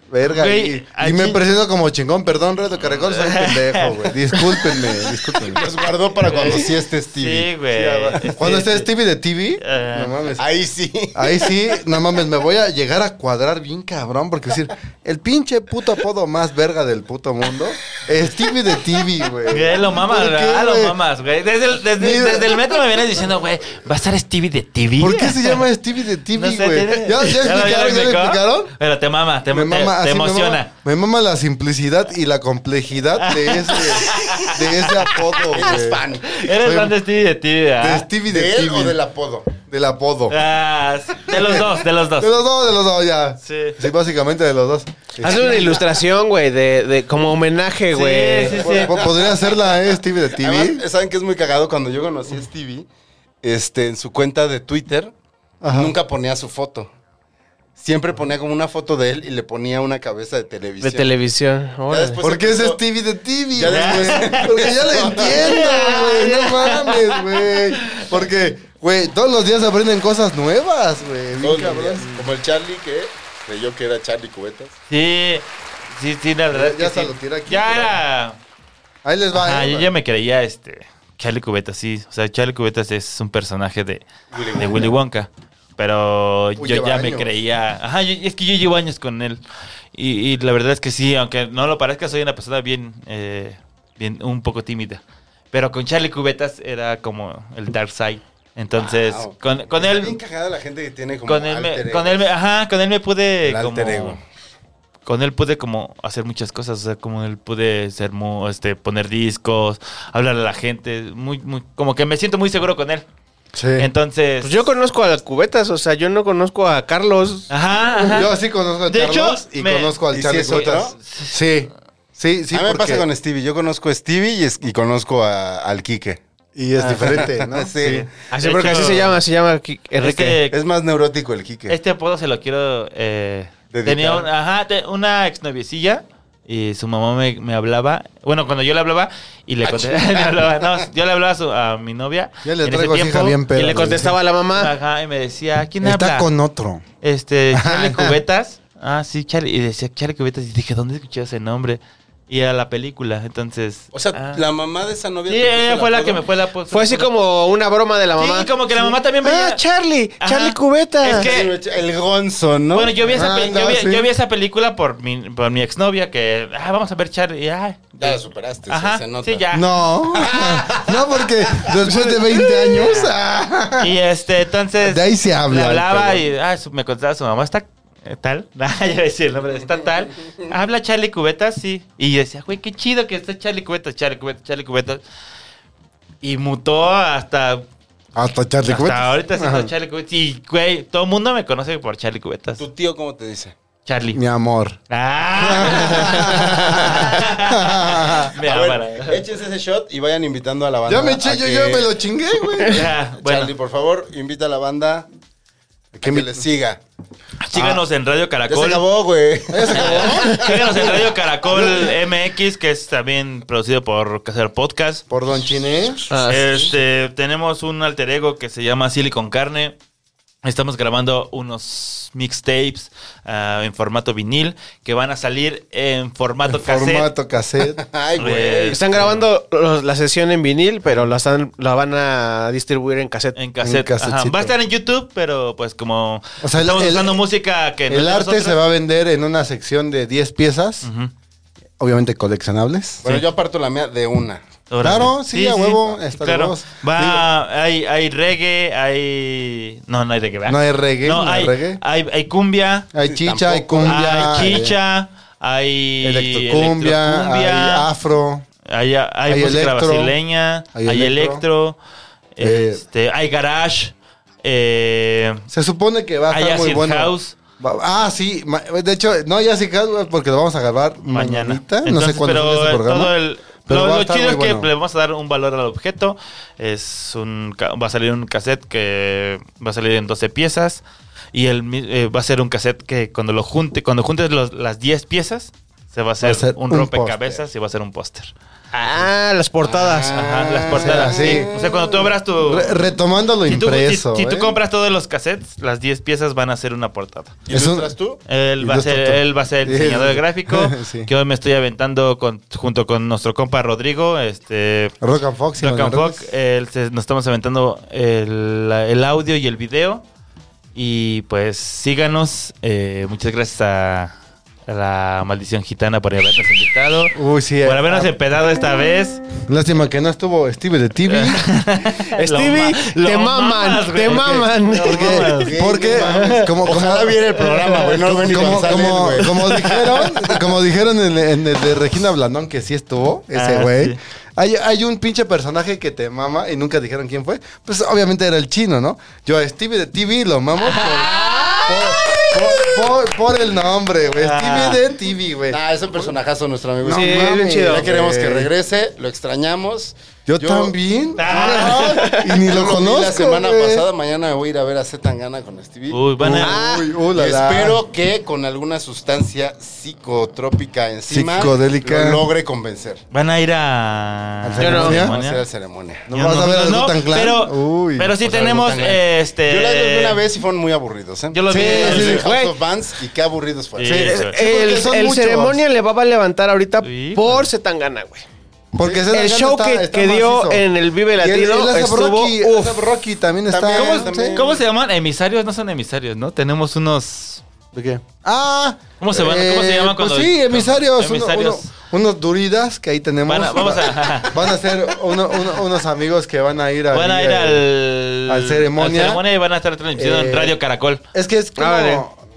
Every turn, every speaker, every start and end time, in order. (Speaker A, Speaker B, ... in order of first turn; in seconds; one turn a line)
Speaker A: 0.1-5.6
Speaker B: 0.2-1.4
Speaker B: 2.8-8.9
Speaker C: 5.5-7.5
Speaker A: 6.3-6.6
Speaker A: 7.7-10.4
Speaker B: 9.6-10.3
Speaker C: 10.4-11.6
Speaker A: 11.1-20.9
Speaker B: 19.5-25.6
Speaker A: 22.0-22.8
Speaker A: 25.0-28.7
Speaker B: 26.3-30.7
Speaker A: 29.5-37.0
Speaker B: 33.2-35.7
Speaker C: 35.5-36.5
Speaker B: 36.3-38.1
Speaker A: 37.8-39.0
Speaker C: 38.3-39.5
Speaker A: 39.5-40.4
Speaker B: 40.3-42.3
Speaker A: 41.3-41.6
Speaker A: 42.2-45.8
Speaker B: 43.4-43.8
Speaker D: 45.2-48.6
Speaker B: 47.9-49.0
Speaker C: 48.5-52.9
Speaker A: 48.6-50.8
Speaker C: 53.4-55.1
Speaker A: 55.6-55.9
Speaker C: 55.7-56.9
Speaker C: 57.8-61.1
Speaker D: 60.8-62.2
Speaker C: 61.9-62.8
Speaker A: 62.2-72.2
Speaker C: 63.5-65.7
Speaker B: 63.7-68.1
Speaker C: 71.4-74.8
Speaker B: 74.9-78.4
Speaker A: 76.5-78.0
Speaker A: 79.0-79.9
Speaker B: 79.3-89.4
Speaker C: 84.3-84.9
Speaker A: 86.6-87.4
Speaker B: 89.9-100.2
Speaker C: 98.7-102.2
Speaker B: 101.2-104.2
Speaker C: 103.4-104.2
Speaker B: 105.0-113.0
Speaker A: 113.5-113.9
Speaker B: 113.8-114.7
Speaker D: 114.4-117.5
Speaker B: 117.5-118.3
Speaker A: 118.0-123.0
Speaker B: 118.9-120.0
Speaker C: 120.1-121.0
Speaker B: 120.5-121.3
Speaker C: 122.5-126.2
Speaker A: 126.5-128.1
Speaker C: 126.8-129.0
Speaker B: 127.8-129.2
Speaker D: 128.3-130.4
Speaker B: 130.0-130.6
Speaker C: 130.5-131.8
Speaker B: 131.7-143.4
Speaker C: 133.7-134.3
Speaker C: 139.6-140.6
Speaker A: 142.4-144.1
Speaker D: 143.5-144.7
Speaker B: 144.5-146.3
Speaker A: 145.8-146.8
Speaker B: 147.0-154.4
Speaker A: 147.5-148.2
Speaker C: 153.9-156.2
Speaker B: 155.3-157.1
Speaker D: 156.7-161.3
Speaker B: 158.2-159.6
Speaker B: 160.2-161.6
Speaker C: 161.1-163.1
Speaker B: 162.7-169.7
Speaker A: 163.1-164.1
Speaker C: 168.0-169.4
Speaker A: 169.5-173.9
Speaker C: 170.1-172.1
Speaker C: 172.7-173.0
Speaker B: 172.8-173.1
Speaker B: 173.8-185.0
Speaker A: 174.8-176.2
Speaker B: 186.2-187.6
Speaker A: 188.1-189.7
Speaker B: 188.7-192.6
Speaker C: 192.6-193.5
Speaker B: 193.8-194.2
Speaker A: 194.1-194.8
Speaker B: 194.9-199.2
Speaker A: 195.3-198.3
Speaker D: 196.4-196.7
Speaker C: 198.4-201.9
Speaker A: 200.8-202.9
Speaker B: 202.6-203.5
Speaker C: 202.8-205.1
Speaker A: 205.9-206.4
Speaker C: 206.0-206.8
Speaker B: 207.4-208.8
Speaker A: 207.5-207.8
Speaker C: 208.5-211.0
Speaker A: 209.5-210.7
Speaker B: 209.7-215.0
Speaker A: 211.5-211.9
Speaker A: 215.1-216.1
Speaker D: 216.1-216.7
Speaker B: 216.2-219.8
Speaker B: 220.4-227.1
Speaker A: 226.5-227.8
Speaker C: 227.6-228.8
Speaker B: 228.2-229.2
Speaker D: 228.7-233.3
Speaker B: 233.3-238.6
Speaker A: 233.6-234.5
Speaker A: 236.4-237.2
Speaker A: 237.9-240.9
Speaker B: 240.8-241.1
Speaker A: 241.8-243.1
Speaker C: 243.0-244.4
Speaker B: 244.7-252.9
Speaker A: 244.8-247.3
Speaker A: 250.5-251.8
Speaker A: 252.9-254.8
Speaker C: 253.0-254.4
Speaker B: 253.8-257.9
Speaker A: 256.0-258.4
Speaker B: 258.6-261.8
Speaker A: 259.3-260.1
Speaker A: 260.7-261.4
Speaker B: 262.4-265.4
Speaker A: 262.4-262.8
Speaker A: 265.5-273.1
Speaker B: 266.3-267.3
Speaker B: 271.1-289.1
Speaker A: 273.6-274.7
Speaker A: 286.2-287.4
Speaker D: 288.7-290.2
Speaker C: 289.6-292.1
Speaker B: 290.1-292.8
Speaker A: 290.7-291.5
Speaker A: 292.4-294.6
Speaker B: 293.5-297.4
Speaker C: 297.5-298.2
Speaker A: 297.5-297.9
Speaker B: 298.3-304.9
Speaker A: 298.6-301.1
Speaker A: 305.0-306.3
Speaker B: 305.6-310.0
Speaker B: 310.7-314.1
Speaker B: 314.6-319.2
Speaker A: 317.1-318.1
Speaker A: 319.4-321.5
Speaker B: 321.1-329.5
Speaker D: 322.0-325.1
Speaker A: 324.1-327.2
Speaker C: 324.9-330.6
Speaker A: 327.9-346.1
Speaker B: 333.3-334.0
Speaker B: 340.6-342.9
Speaker B: 344.1-344.8
Speaker C: 345.5-350.7
Speaker A: 346.8-348.5
Speaker D: 346.9-347.9
Speaker A: 350.2-353.9
Speaker B: 351.2-352.2
Speaker D: 351.4-352.3
Speaker C: 352.3-356.0
Speaker B: 355.9-356.6
Speaker A: 356.2-357.8
Speaker D: 356.4-356.9
Speaker C: 357.1-363.0
Speaker A: 361.1-362.2
Speaker B: 363.1-365.4
Speaker A: 364.4-365.1
Speaker D: 364.6-365.0
Speaker C: 364.8-366.1
Speaker A: 366.1-368.1
Speaker B: 366.1-370.2
Speaker C: 368.2-374.1
Speaker B: 371.3-372.2
Speaker A: 371.5-372.3
Speaker D: 371.9-372.6
Speaker B: 373.8-374.4
Speaker A: 373.9-375.6
Speaker D: 373.9-378.3
Speaker B: 376.8-377.4
Speaker A: 378.7-380.6
Speaker D: 378.9-382.8
Speaker A: 381.2-384.4
Speaker C: 383.5-384.6
Speaker B: 383.7-387.4
Speaker A: 387.7-397.6
Speaker B: 389.0-391.7
Speaker B: 393.2-394.4
Speaker B: 396.9-401.0
Speaker A: 398.3-399.2
Speaker A: 399.9-400.6
Speaker A: 401.1-402.2
Speaker D: 401.6-402.0